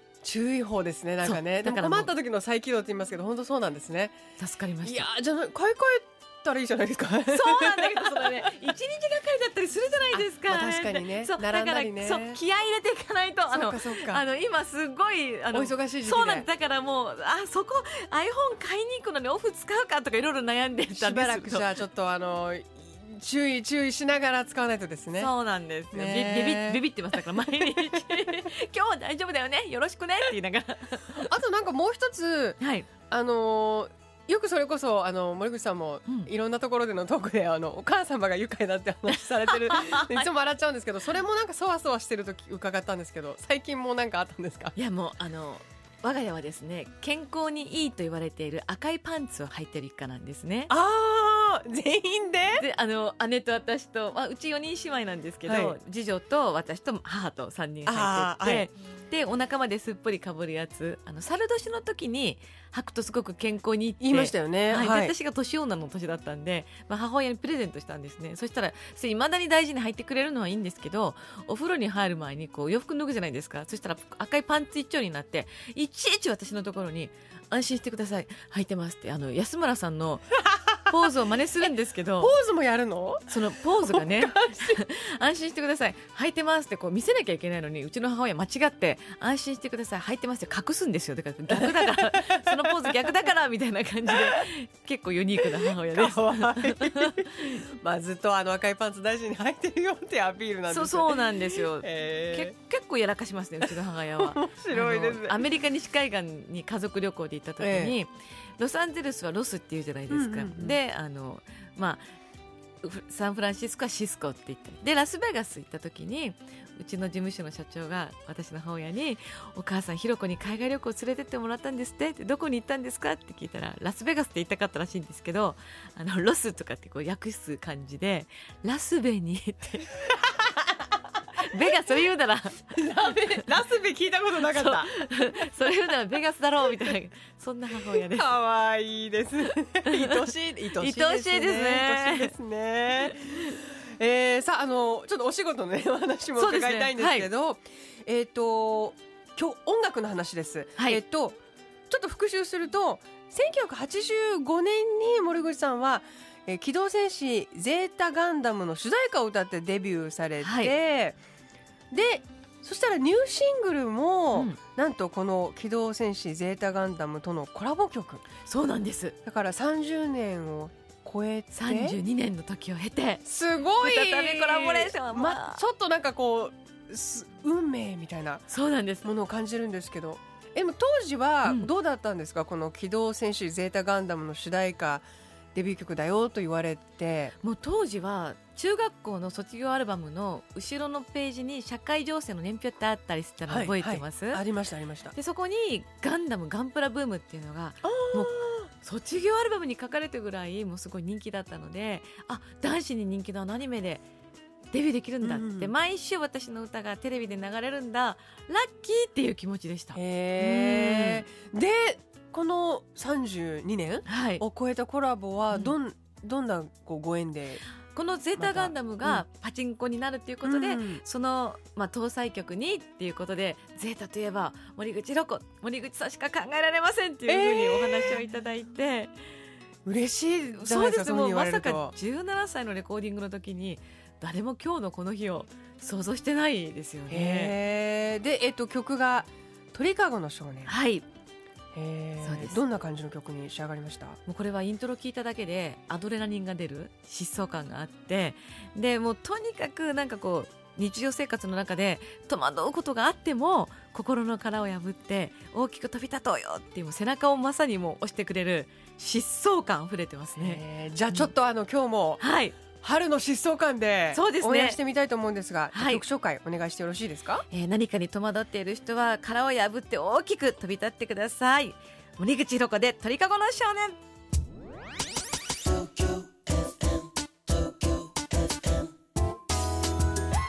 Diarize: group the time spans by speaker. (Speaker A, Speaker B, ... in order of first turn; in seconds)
Speaker A: 0.2-4.2, 4.8-8.6, 10.1-12.4, 13.5-14.2, 15.5-16.5, 20.9-25.3, 25.9-27.9, 31.2-44.7, 50.7-52.6, 55.5-55.8, 57.9-58.7, 64.0-65.1, 82.2-84.8, 91.5-93.1, 94.1-94.4, 95.4-102.5, 103.6-105.5, 107.6-108.0, 110.1-110.8, 132.7-134.9, 137.8-151.4, 151.9-161.2, 161.9-168.2, 169.2-172.0, 173.2-178.4, 179.0-187.3, 193.5-195.1, 197.8-198.7, 205.2-205.7, 209.9-217.6, 218.4-219.2, 220.4-221.0, 227.3-228.3, 229.8-231.9, 237.1-240.7, 241.7-244.2, 260.3-262.2, 262.8-267.4
Speaker B: 1.2-2.1, 4.4-5.1, 7.3-21.7, 25.1-31.3, 32.6-32.9, 36.0-36.3, 39.4-40.2, 44.8-50.7, 52.5-82.3, 83.3-97.3, 100.7-112.0, 112.8-129.9, 131.4-133.0, 134.4-138.3, 139.8-142.3, 143.0-143.5, 146.4-147.3, 150.8-151.0, 160.4-160.7, 168.4-169.2, 171.5-175.6, 178.5-179.1, 181.4-181.7, 187.4-194.4, 195.1-204.0, 204.7-211.2, 214.1-214.4, 215.5-215.8, 217.9-229.1, 230.6-237.6, 240.6-241.1, 242.2-242.6, 244.2-261.3, 262.2-262.6, 264.1-264.8, 265.7-266.0, 267.5-274.0